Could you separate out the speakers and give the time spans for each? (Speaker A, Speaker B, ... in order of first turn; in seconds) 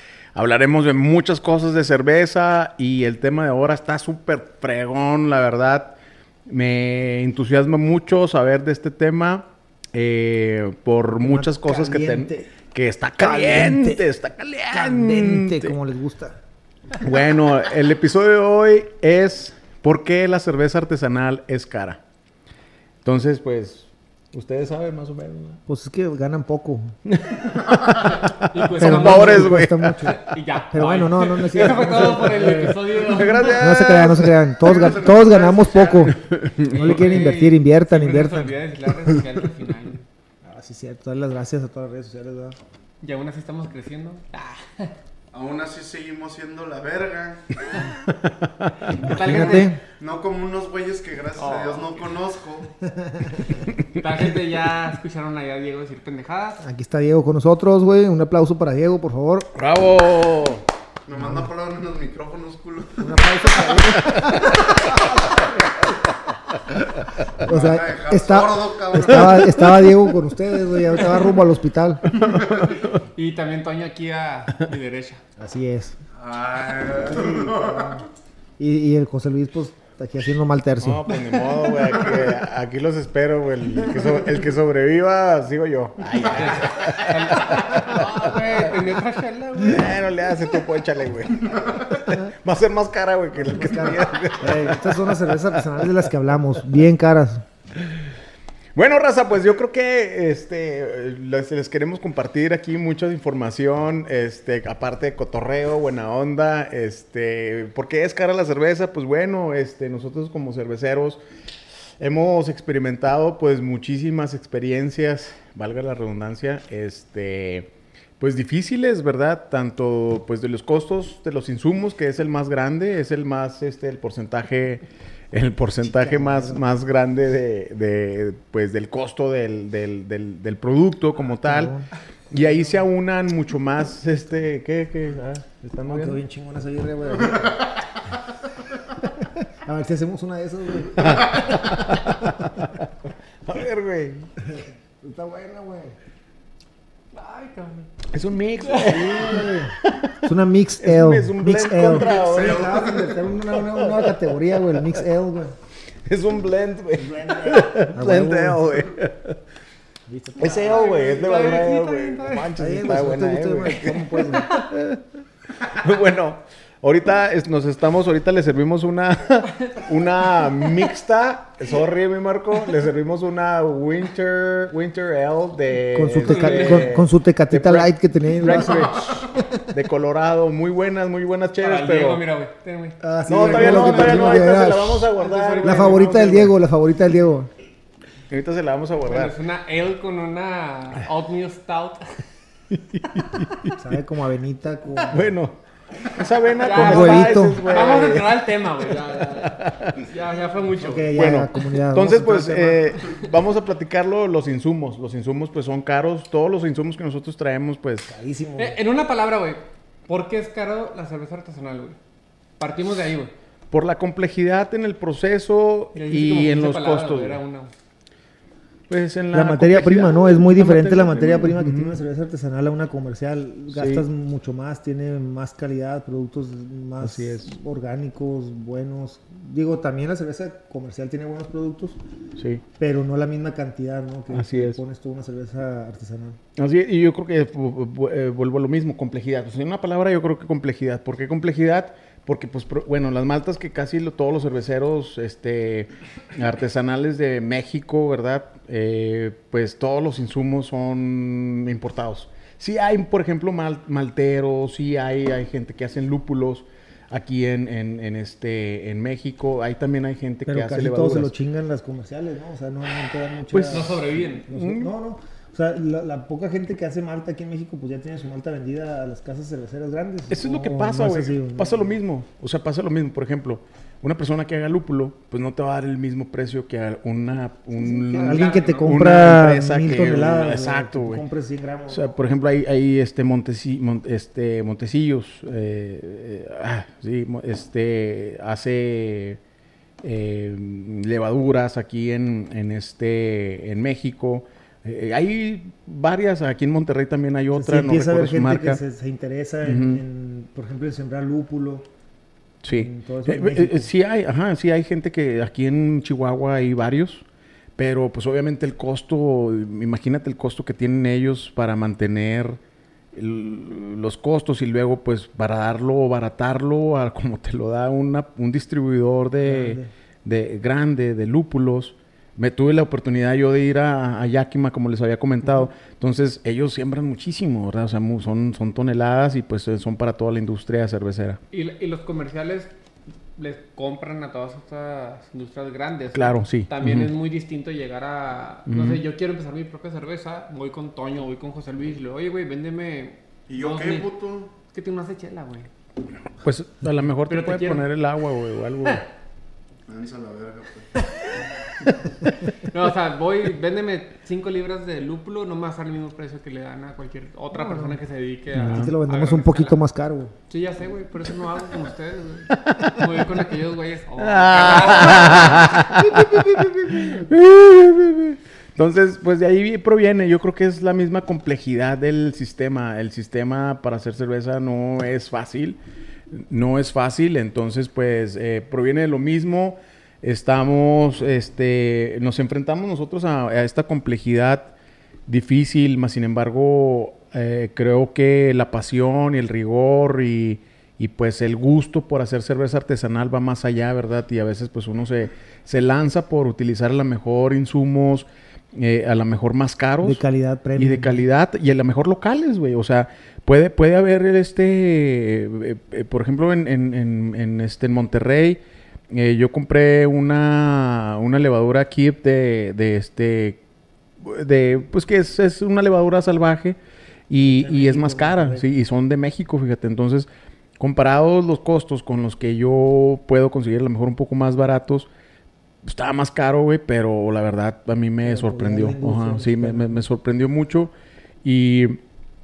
Speaker A: 0.3-6.0, 6.5-15.8, 17.0-22.0, 23.0-25.6, 27.1-30.2, 31.5-34.4, 36.1-37.1, 48.2-49.0, 59.5-60.6, 64.0-64.6, 72.2-73.0, 80.8-88.9, 89.6-95.9, 97.8-98.1, 98.7-111.2, 112.0-131.7, 132.3-136.2, 141.0-142.9, 143.4-144.3, 148.1-150.3, 150.8-152.9, 153.4-155.0, 156.0-159.4, 160.4-165.1, 165.6-182.2, 183.3-186.5, 188.3-189.3, 192.7-193.8, 195.0-200.0, 201.1-208.2, 213.7-217.4, 218.9-222.0, 223.7-224.1, 227.0-227.5, 232.3-232.6, 234.3-234.8, 236.6-261.3, 263.5-264.9, 270.3-281.2, 281.9-289.4, 290.0-298.8, 299.6-300.0, 302.6-307.2, 307.8-312.6, 313.1-331.4, 336.1-337.1, 338.7-339.0, 346.4-349.0, 358.5-358.9, 362.5-363.3, 364.2-375.8, 376.3-384.7, 385.3-400.2, 400.8-413.6, 414.2-416.8, 417.3-420.3, 420.8-425.1, 425.8-432.0
Speaker B: 11.2-12.5, 13.2-14.0, 14.7-16.4, 25.7-26.9, 28.8-30.2, 30.7-33.0, 33.5-39.2, 40.4-42.6, 49.0-49.8, 52.8-53.6, 56.6-59.5, 61.1-61.5, 63.0-64.9, 67.3-72.1, 75.4-76.0, 77.0-78.0, 78.6-81.5, 83.8-84.4, 93.4-97.5, 125.8-126.6, 131.4-131.9, 135.6-137.7, 139.0-141.8, 144.4-146.0, 148.8-155.6, 156.9-158.6, 160.1-160.9, 162.6-164.5, 175.9-179.6, 183.0-187.5, 193.8-195.3, 196.7-197.7, 200.8-202.9, 208.1-208.8, 219.3-232.0, 232.8-236.4, 260.4-271.9, 277.7-282.2, 297.5-301.9, 302.7-303.9, 319.4-319.9, 357.5-358.0, 358.6-360.3, 400.0-401.2, 417.4-418.6, 428.2-430.0
Speaker C: 28.5-33.8, 36.7-40.0, 43.0-44.9, 48.8-49.7, 51.4-52.0, 53.9-56.6, 73.0-75.2, 86.2-89.9, 147.1-147.9, 148.6-149.2, 160.4-162.6, 176.2-176.9, 181.6-184.4, 185.1-186.5, 189.0-192.2, 196.6-201.3, 208.6-212.0, 212.6-213.3, 215.9-217.7, 263.7-264.5, 278.1-279.0, 331.5-332.7, 333.4-344.1, 344.6-345.7, 347.3-347.9, 352.5-359.8, 360.5-365.9
Speaker D: 34.6-36.2, 45.3-47.8, 50.0-52.7, 61.0-63.6, 67.4-70.0, 72.2-72.7, 76.2-78.0, 137.1-137.9, 152.0-153.2, 343.5-344.5, 349.9-351.0